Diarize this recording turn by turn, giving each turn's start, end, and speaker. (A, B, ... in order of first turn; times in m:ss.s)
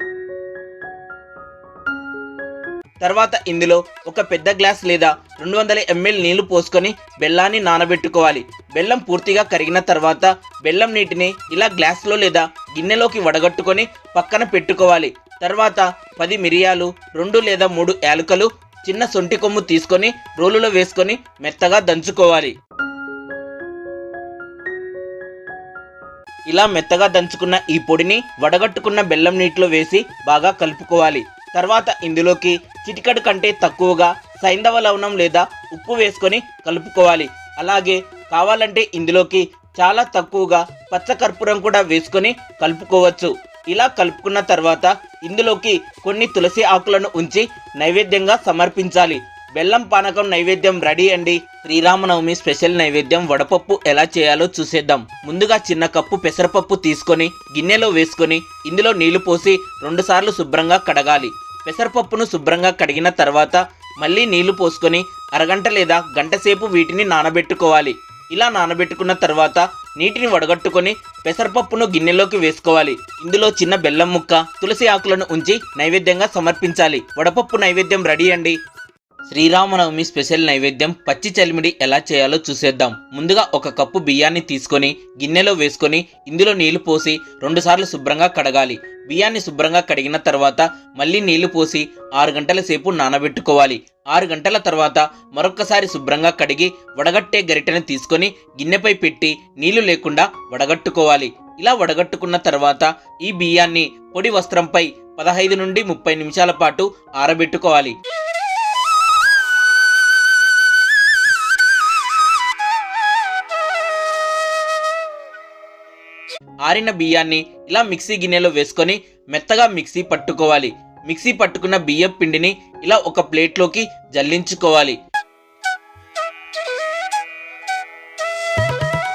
0:03.0-0:22.5 A
0:26.5-1:18.6 A
1:19.3-1:47.9 A
1:56.6-2:05.0 A